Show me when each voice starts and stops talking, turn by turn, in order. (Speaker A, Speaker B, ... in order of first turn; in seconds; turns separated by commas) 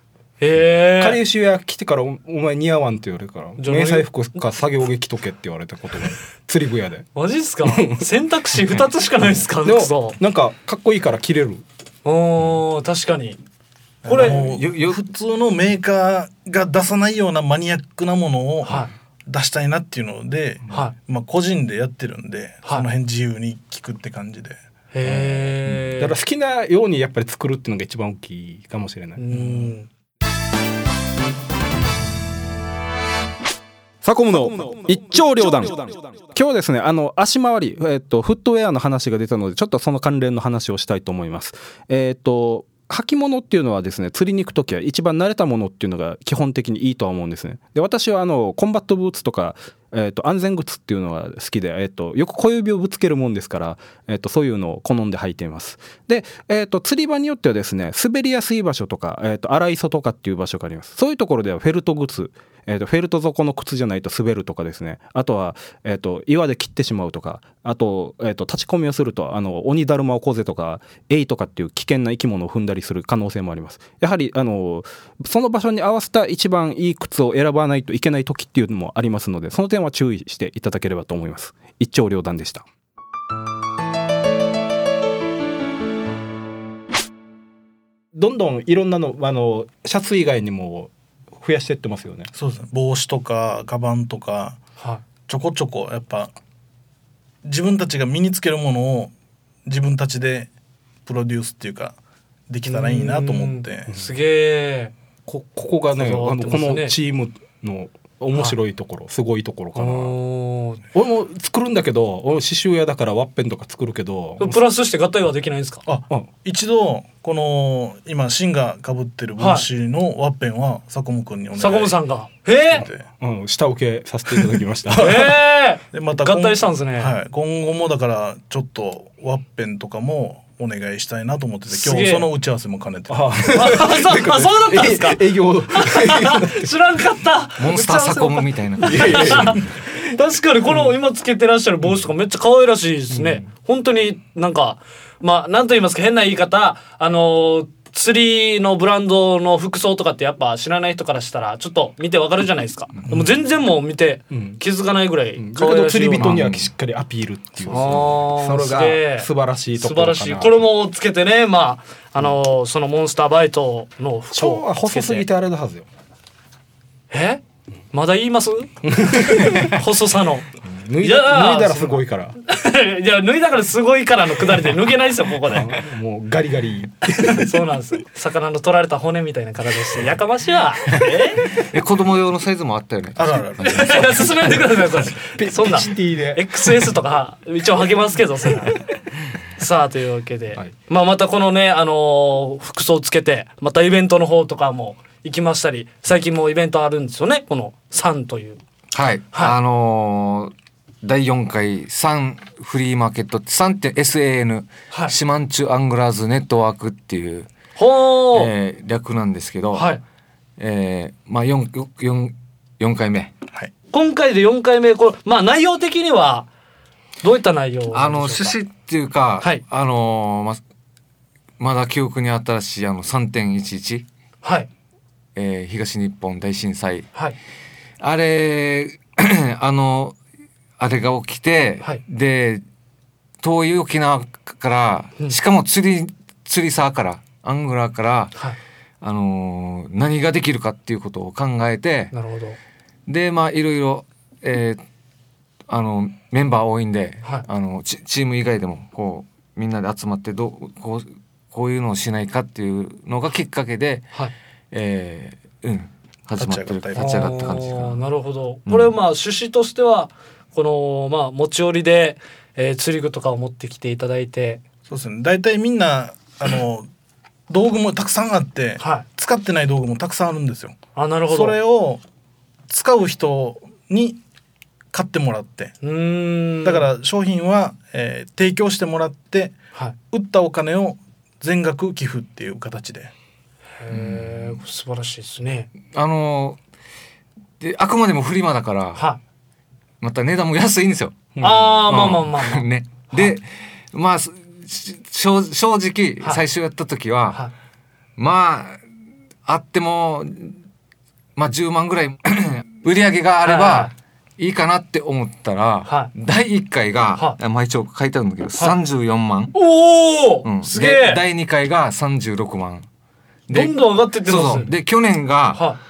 Speaker A: 0.4-1.2, Speaker B: 1.0-7.1, Speaker A: 3.6-4.1, Speaker A: 7.2-10.2, Speaker B: 7.7-8.1, Speaker B: 9.6-11.7, Speaker A: 12.1-13.4, Speaker C: 14.0-24.6, Speaker A: 14.1-14.5, Speaker D: 14.2-15.0, Speaker A: 18.6-18.9, Speaker A: 24.9-26.2, Speaker B: 26.0-29.3, Speaker A: 29.2-29.9, Speaker B: 34.0-82.7, Speaker B: 88.1-92.3, Speaker C: 92.3-94.6, Speaker C: 95.3-96.3, Speaker C: 97.4-99.1, Speaker C: 99.7-100.5, Speaker C: 101.1-102.0, Speaker C: 102.5-103.9, Speaker A: 102.7-104.9, Speaker B: 105.3-110.2, Speaker A: 105.9-107.0, Speaker A: 109.8-110.8, Speaker B: 110.9-114.6, Speaker A: 114.4-115.8, Speaker C: 115.9-122.0, Speaker A: 119.4-119.7, Speaker A: 121.6-122.9, Speaker C: 122.7-123.0, Speaker B: 123.2-125.3, Speaker A: 125.0-127.2, Speaker C: 125.9-133.3, Speaker A: 131.7-132.3, Speaker B: 133.1-136.7, Speaker A: 133.5-156.4, Speaker D: 137.6-139.6, Speaker B: 138.8-139.7, Speaker B: 143.1-143.4, Speaker B: 154.3-154.6, Speaker B: 155.4-160.7, Speaker D: 156.2-156.7, Speaker A: 157.7-165.3, Speaker B: 164.3-165.9, Speaker A: 167.1-170.5, Speaker B: 168.8-169.7, Speaker B: 170.7-172.4, Speaker A: 171.0-175.7, Speaker B: 175.5-177.6, Speaker A: 177.3-181.5, Speaker D: 181.6-184.7, Speaker C: 183.2-183.7, Speaker A: 183.6-188.8, Speaker B: 185.4-186.4, Speaker A: 189.6-198.6, Speaker D: 198.9-207.5, Speaker A: 207.8-208.5, Speaker D: 208.3-210.0, Speaker A: 209.7-210.0, Speaker D: 210.6-213.3, Speaker A: 213.9-216.5, Speaker A: 217.2-218.5, Speaker D: 217.9-220.6, Speaker D: 221.6-224.1, Speaker A: 224.4-224.7, Speaker D: 225.4-227.1, Speaker D: 228.0-230.2, Speaker D: 230.8-232.6, Speaker D: 233.4-238.3, Speaker D: 239.0-242.1, Speaker A: 242.1-242.6, Speaker D: 243.1-244.8, Speaker D: 245.7-254.1, Speaker D: 254.7-258.0, Speaker C: 256.4-257.4, Speaker A: 256.9-264.6, Speaker D: 258.7-258.9, Speaker C: 264.9-266.9, Speaker C: 267.5-270.8, Speaker A: 268.8-269.1, Speaker A: 270.9-271.6, Speaker C: 271.3-272.0, Speaker C: 272.7-274.2, Speaker C: 274.9-275.8, Speaker A: 275.8-276.9, Speaker C: 276.6-279.6, Speaker C: 280.1-283.1, Speaker A: 283.8-285.7, Speaker D: 283.9-284.6, Speaker D: 285.9-286.6, Speaker D: 287.6-289.1, Speaker A: 288.9-289.2, Speaker D: 290.0-291.1, Speaker B: 291.4-291.8, Speaker A: 291.4-293.4, Speaker D: 291.9-297.5, Speaker D: 298.2-298.8, Speaker D: 299.5-300.6, Speaker D: 301.4-309.6, Speaker A: 303.4-303.9, Speaker A: 305.9-306.1, Speaker A: 309.5-311.2, Speaker D: 310.4-312.9, Speaker D: 313.5-315.7, Speaker A: 313.5-314.7, Speaker A: 315.5-315.8